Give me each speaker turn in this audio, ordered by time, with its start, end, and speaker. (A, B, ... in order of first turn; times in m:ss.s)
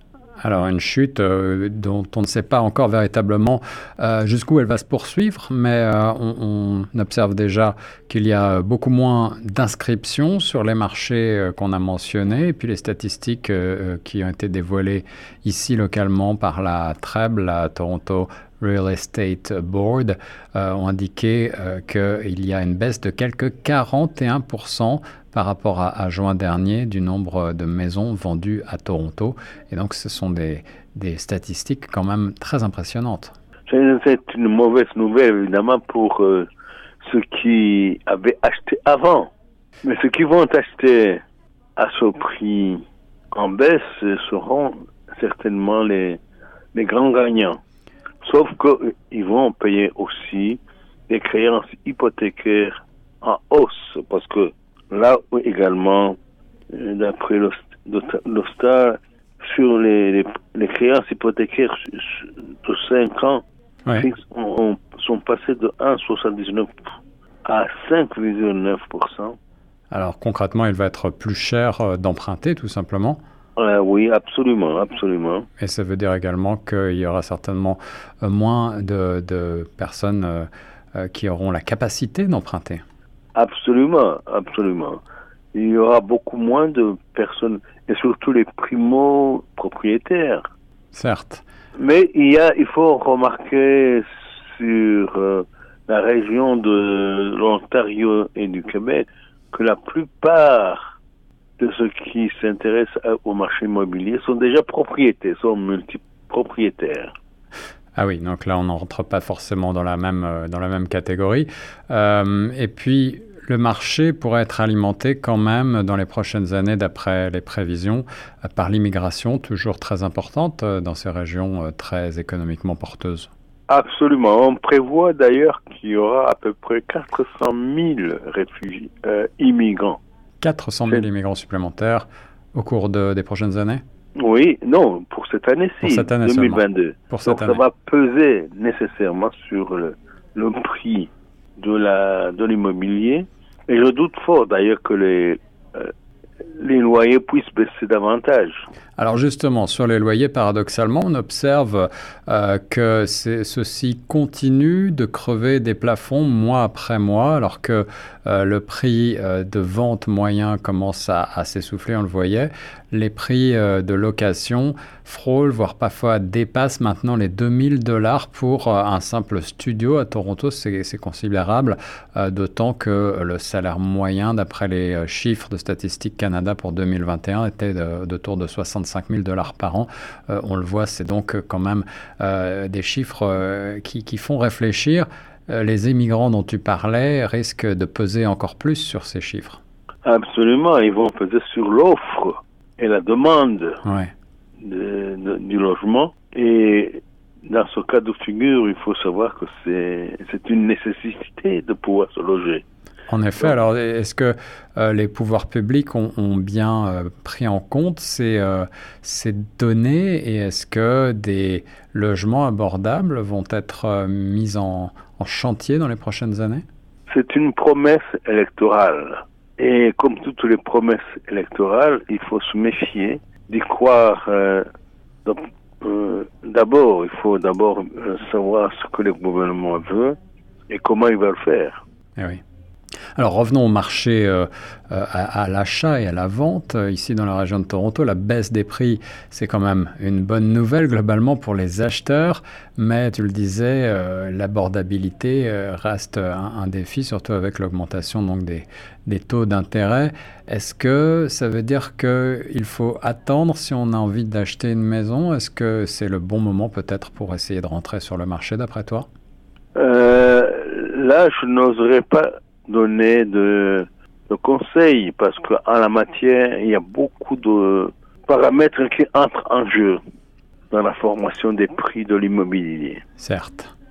0:00.4-0:33.4 A
0:33.7-0:36.5 B
0:37.0-0:39.3 B
0:39.8-0:41.2 B
0:41.8-0:46.2 B
0:46.7-0:47.6 B
0:48.2-0:56.2 B
0:56.7-1:03.4 B
1:04.0-1:06.7 B
1:07.4-1:09.4 B
1:09.9-1:13.2 A
1:13.6-1:15.5 B
1:15.6-1:22.8 A
1:23.4-1:25.0 B
1:25.5-1:30.5 B
1:30.9-1:31.4 A
1:31.8-1:41.0 B
1:41.6-1:47.2 B
1:48.0-2:03.3 A
2:03.7-2:10.0 B
2:10.4-2:13.8 A
2:14.2-2:25.9 B
2:15.8-2:17.6 A
2:26.5-2:28.7 B
2:29.0-3:09.6 A
3:10.0-3:13.8 B
3:13.8-3:14.1 A
3:14.6-3:22.6 B
3:23.1-3:36.6 A
3:37.1-3:44.6 B
3:45.2-3:50.2 B
3:50.7-3:51.8 B
3:52.2-3:52.4 A
3:53.2-4:19.1 A
4:19.8-4:30.0 B
4:30.7-4:33.0 B
4:33.2-4:33.7 A